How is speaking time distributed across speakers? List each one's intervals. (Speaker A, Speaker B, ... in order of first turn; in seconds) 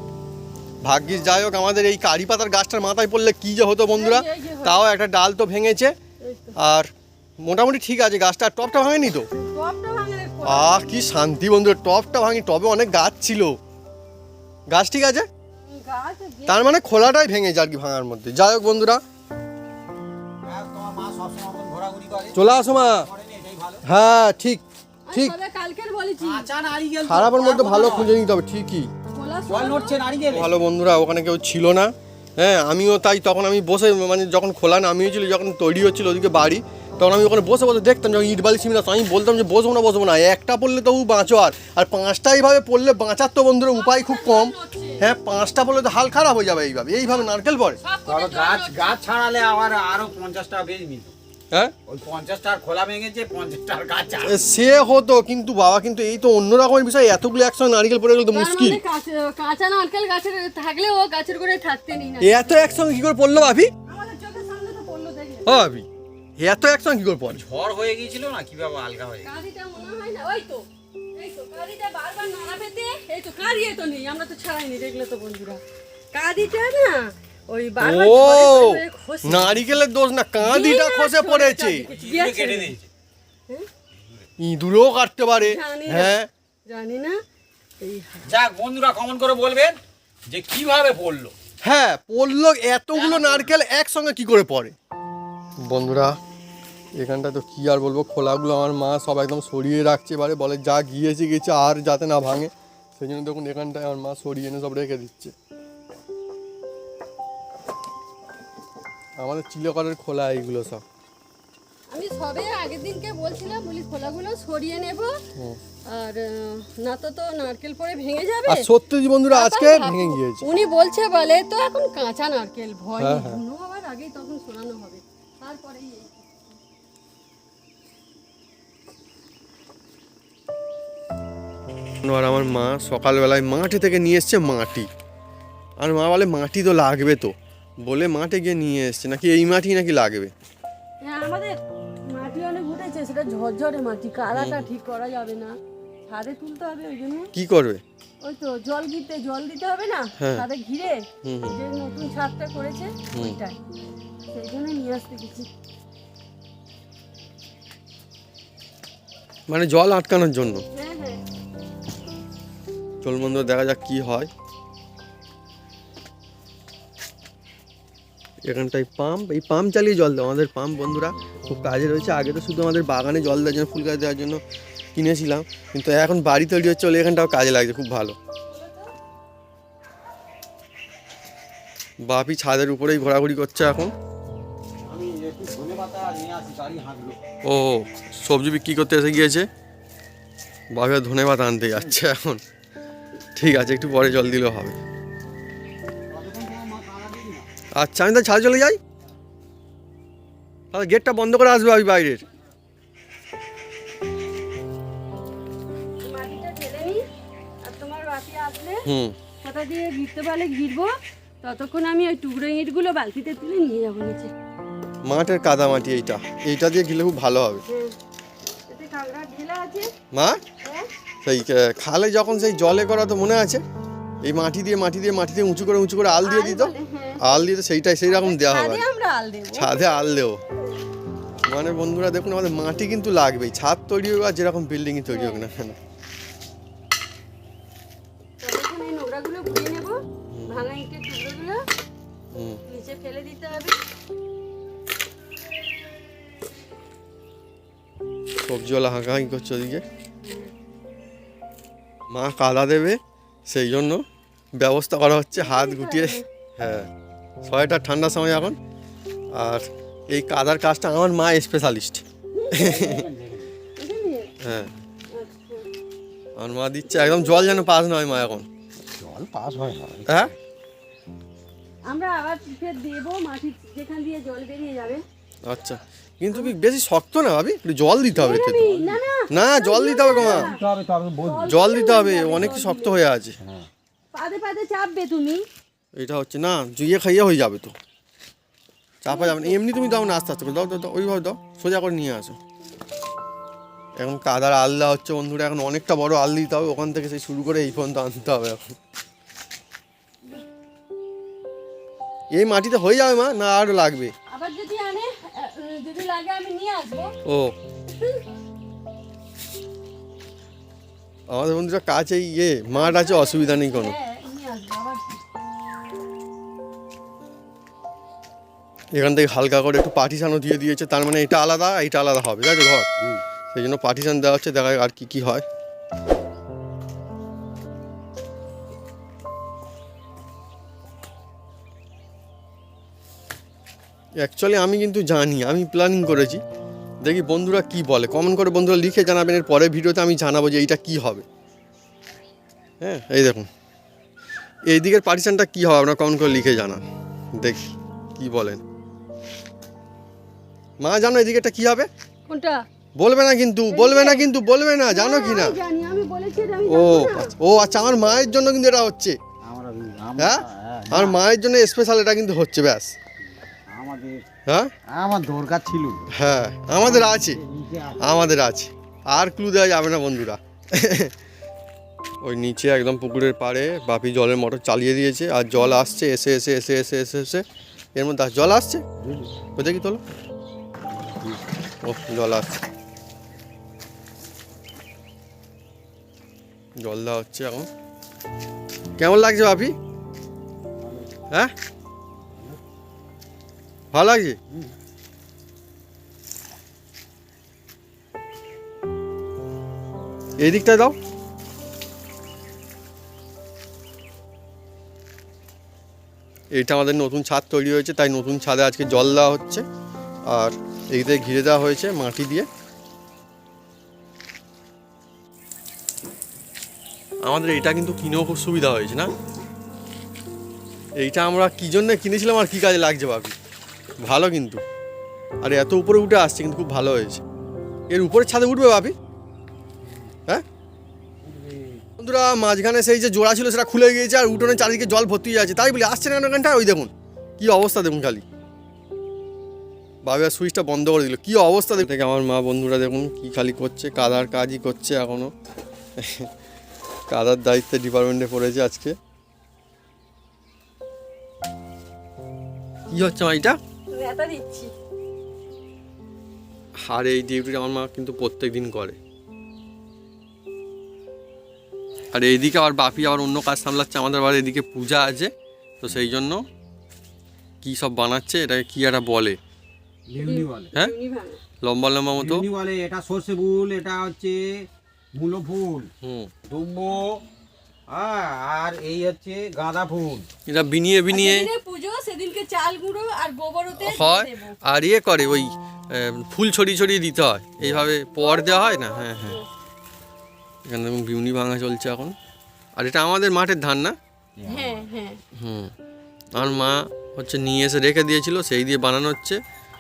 Speaker A: 0.8-5.9, 6.6-6.9, 7.4-9.3, 10.4-13.6, 14.7-15.3, 16.5-19.0, 22.3-23.1, 23.8-25.3, 27.1-28.9, 30.3-47.8, 54.2-58.8, 62.2-63.7, 65.5-65.9, 66.4-67.4, 77.8-81.9, 84.4-86.3, 91.6-94.8, 95.6-96.2, 97.0-105.3, 109.2-110.8, 118.5-120.5, 123.0-123.4, 132.0-134.9, 135.8-140.3, 144.3-144.7, 147.3-147.8, 150.2-150.4, 151.2-151.6, 153.1-153.4, 159.5-160.7, 163.0-164.3, 168.5-174.4, 174.9-178.2, 182.0-183.9, 187.4-189.5, 190.7-192.4, 193.4-194.8, 197.8-198.8, 200.7-202.2, 208.9-209.2, 215.1-217.6, 220.1-220.4, 221.2-223.6, 224.2-228.8, 229.5-230.4, 231.5-235.8, 240.3-240.7, 242.3-242.6, 248.4-249.8, 252.1-254.0, 254.6-256.9, 257.4-258.6, 259.3-262.9, 264.4-264.7, 266.4-268.4, 275.4-278.7, 279.3-280.5, 281.5-283.4, 285.9-287.7, 289.0-292.4, 294.0-298.8, 302.3-304.1, 307.2-307.6, 311.3-313.9, 318.9-322.9, 323.5-325.4, 334.2-336.4, 337.0-341.2, 342.8-343.5, 344.7-346.8, 347.4-348.6, 350.8-351.9, 353.0-355.6, 356.7-359.2, 360.2-362.9, 366.1-367.4, 368.0-371.1, 372.2-377.4, 377.9-378.8, 379.6-380.0, 381.8-382.6, 386.8-387.7, 389.0-389.7, 393.9-394.4, 400.4-400.9, 406.5-409.6, 410.3-412.5, 417.2-419.1, 421.0-423.3, 424.0-424.6, 425.4-427.2, 427.9-428.9, 432.0-438.2, 440.0-445.3, 446.0-446.3, 447.1-448.9, 452.9-453.6, 456.9-459.0, 462.1-466.4, 467.6-469.4, 471.6-472.4, 476.0-476.3, 480.5-481.5, 483.8-489.4, 490.7-492.1, 492.8-493.9, 495.4-495.7, 496.3-499.4
Speaker B: 3.9-4.8, 6.2-6.6, 9.3-10.9, 15.6-16.9, 25.1-26.5, 29.1-30.0, 43.7-45.0, 47.8-49.0, 58.3-62.8, 63.9-65.6, 69.2-75.6, 76.1-79.8, 80.4-82.8, 85.4-86.2, 86.7-87.2, 87.8-88.3, 111.9-115.2, 115.9-118.7, 119.3-126.5, 141.0-145.6, 146.1-147.3, 148.2-153.6, 154.3-155.5, 160.7-161.2, 178.5-178.9, 206.0-207.0, 207.6-208.8, 209.4-214.3, 217.7-217.9, 218.7-219.9, 220.6-220.9, 226.2-227.5, 228.1-229.9, 235.1-235.4, 238.4-241.6, 242.7-243.8, 250.2-250.5, 255.3-256.2, 262.3-263.1, 263.8-264.4, 265.1-265.7, 266.9-267.7, 271.9-275.0, 278.1-280.6, 281.2-283.0, 284.1-285.4, 289.1-289.6, 304.3-307.1, 312.7-315.2, 352.3-352.6, 353.7-354.3, 354.9-357.3, 453.9-454.7, 470.2-471.4, 481.1-484.6, 488.2-489.4, 494.4-495.2
Speaker C: 20.4-23.8, 26.2-28.1, 29.5-30.5, 48.1-51.1, 51.9-54.5, 67.3-69.3, 81.9-82.9, 88.2-91.3, 93.0-93.5, 184.8-187.2, 196.1-197.5, 262.6-263.5, 268.9-270.3, 278.6-279.0, 280.1-281.6, 283.4-283.7, 359.4-361.2, 363.5-364.2, 364.9-366.1, 366.8-368.1, 379.0-379.3, 380.9-381.4, 390.8-391.1, 392.2-392.6, 431.2-431.8, 470.1-470.7, 472.2-475.9, 476.5-477.2, 477.9-480.3, 494.4-494.9